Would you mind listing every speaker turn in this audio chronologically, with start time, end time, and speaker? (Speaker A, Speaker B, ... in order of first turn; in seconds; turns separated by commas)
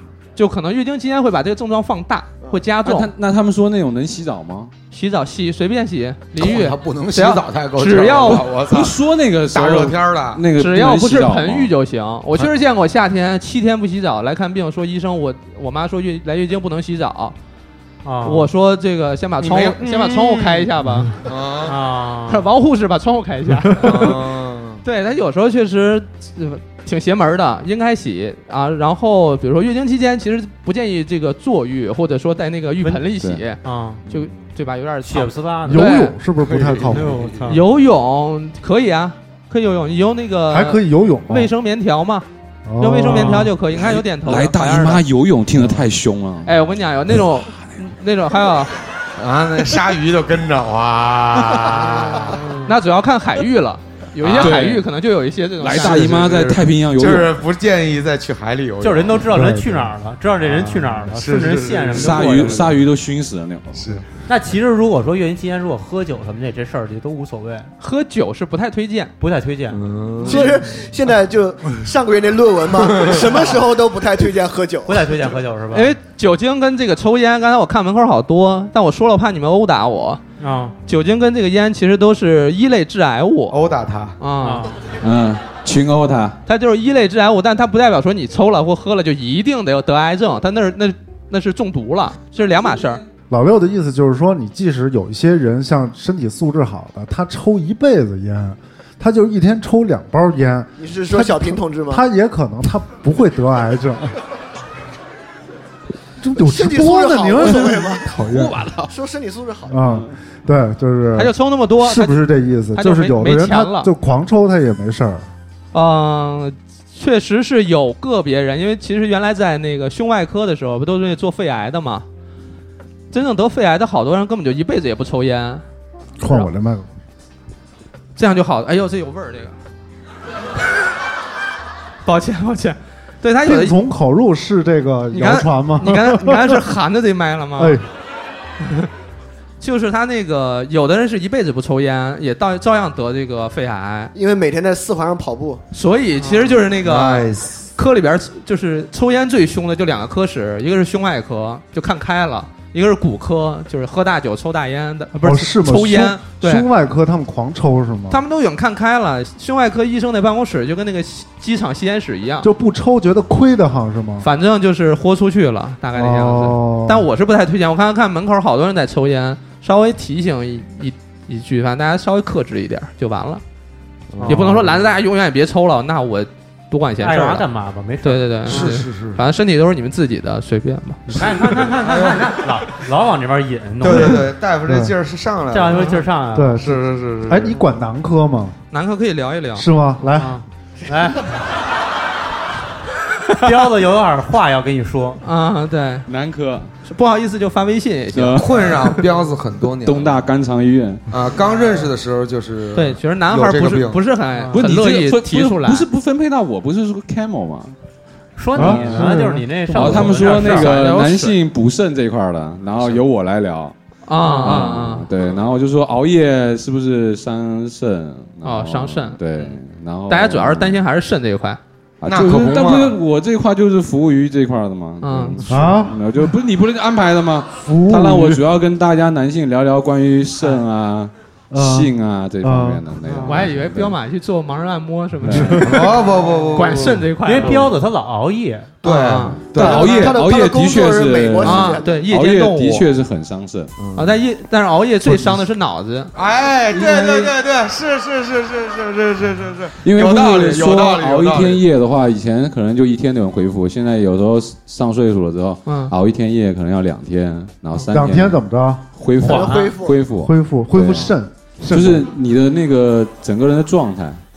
Speaker A: 0.4-3.1, Speaker B: 2.8-4.7, Speaker A: 4.9-8.4, Speaker C: 6.4-10.4, Speaker B: 8.3-11.7, Speaker A: 10.6-17.4, Speaker D: 18.0-18.5, Speaker A: 18.2-21.1, Speaker C: 19.4-20.7, Speaker C: 21.2-21.8, Speaker D: 21.6-22.5, Speaker A: 22.3-24.2, Speaker C: 23.8-24.8, Speaker A: 24.8-36.1, Speaker D: 33.6-34.0, Speaker D: 35.0-35.9, Speaker E: 35.6-37.2, Speaker C: 36.4-37.6, Speaker D: 36.9-37.6, Speaker A: 37.5-42.3, Speaker E: 40.5-41.5, Speaker E: 42.7-43.5, Speaker A: 42.8-45.0, Speaker B: 43.8-46.6, Speaker A: 46.5-48.7, Speaker C: 49.2-52.4, Speaker D: 52.0-52.7, Speaker A: 52.6-56.3, Speaker B: 54.2-54.9, Speaker C: 54.3-54.5, Speaker B: 55.6-57.4, Speaker C: 55.6-59.3, Speaker D: 58.8-62.7, Speaker E: 59.3-59.9, Speaker C: 60.4-62.7, Speaker B: 61.9-63.8, Speaker C: 63.8-64.0, Speaker D: 64.3-67.7, Speaker A: 67.8-69.1, Speaker D: 69.2-70.3, Speaker C: 69.7-70.5, Speaker F: 70.2-75.2, Speaker A: 70.2-70.5, Speaker C: 72.8-73.4, Speaker D: 74.9-75.9, Speaker A: 75.7-80.2, Speaker D: 80.4-80.8, Speaker A: 80.9-83.6, Speaker C: 83.5-84.2, Speaker A: 84.2-84.7, Speaker D: 84.4-84.8, Speaker B: 85.0-86.4, Speaker A: 86.5-93.0, Speaker E: 93.3-104.2, Speaker F: 100.8-102.0, Speaker E: 106.2-108.6, Speaker F: 106.4-108.1, Speaker A: 108.3-108.9, Speaker F: 108.9-110.0, Speaker E: 109.7-115.3, Speaker A: 111.2-113.9, Speaker A: 115.7-122.0, Speaker A: 123.1-125.6, Speaker E: 126.2-126.9, Speaker A: 128.2-129.6, Speaker A: 132.1-133.8, Speaker E: 133.4-136.7, Speaker A: 135.1-137.8, Speaker E: 137.6-137.8, Speaker A: 138.6-138.9, Speaker A: 139.6-144.1, Speaker F: 144.2-145.6, Speaker A: 145.7-156.7, Speaker D: 146.2-146.6, Speaker C: 146.8-147.7, Speaker E: 155.2-158.2, Speaker A: 158.1-162.5, Speaker E: 162.4-164.3, Speaker A: 164.2-173.4, Speaker E: 165.9-167.1, Speaker C: 174.1-174.7, Speaker D: 174.2-174.7, Speaker A: 174.3-177.5, Speaker D: 177.0-178.8, Speaker A: 178.0-181.2, Speaker C: 178.5-179.2, Speaker D: 181.1-184.3, Speaker C: 181.1-182.3, Speaker C: 183.8-187.6, Speaker E: 184.7-184.9, Speaker D: 185.5-186.6, Speaker E: 186.3-188.6, Speaker A: 188.7-189.7, Speaker E: 189.6-190.4, Speaker D: 190.1-191.3, Speaker D: 193.4-195.2, Speaker A: 195.2-196.1, Speaker B: 196.1-196.7, Speaker A: 196.8-198.5, Speaker B: 198.1-199.0, Speaker C: 198.4-200.2, Speaker B: 199.8-201.1, Speaker C: 201.1-204.0, Speaker A: 202.8-205.9, Speaker D: 204.3-204.6, Speaker B: 204.5-207.8, Speaker D: 208.4-210.7, Speaker B: 208.6-209.2, Speaker E: 208.6-209.5, Speaker B: 209.7-213.7, Speaker A: 209.8-211.4, Speaker A: 214.1-215.1, Speaker D: 214.2-214.8, Speaker B: 214.4-220.8, Speaker A: 218.4-219.5, Speaker A: 220.1-221.6, Speaker B: 222.0-233.9, Speaker C: 222.1-223.0, Speaker A: 225.0-225.7, Speaker E: 225.5-226.0, Speaker E: 227.6-228.4, Speaker E: 231.5-232.8, Speaker D: 233.1-233.4, Speaker A: 233.3-235.9, Speaker B: 235.2-235.8, Speaker E: 235.3-235.8, Speaker C: 235.6-237.7, Speaker A: 236.5-237.6, Speaker D: 237.2-238.8, Speaker C: 238.8-240.2, Speaker A: 238.8-239.4, Speaker B: 239.3-243.7, Speaker F: 239.6-242.0, Speaker A: 241.4-242.8, Speaker C: 243.8-244.2, Speaker A: 244.0-246.1, Speaker E: 245.1-245.4, Speaker C: 246.1-251.6, Speaker A: 246.8-247.2, Speaker B: 249.8-258.4, Speaker A: 255.7-255.9, Speaker E: 257.9-258.9, Speaker B: 259.0-261.1, Speaker F: 259.2-260.0, Speaker D: 259.3-259.8, Speaker E: 260.2-262.1, Speaker B: 261.7-264.2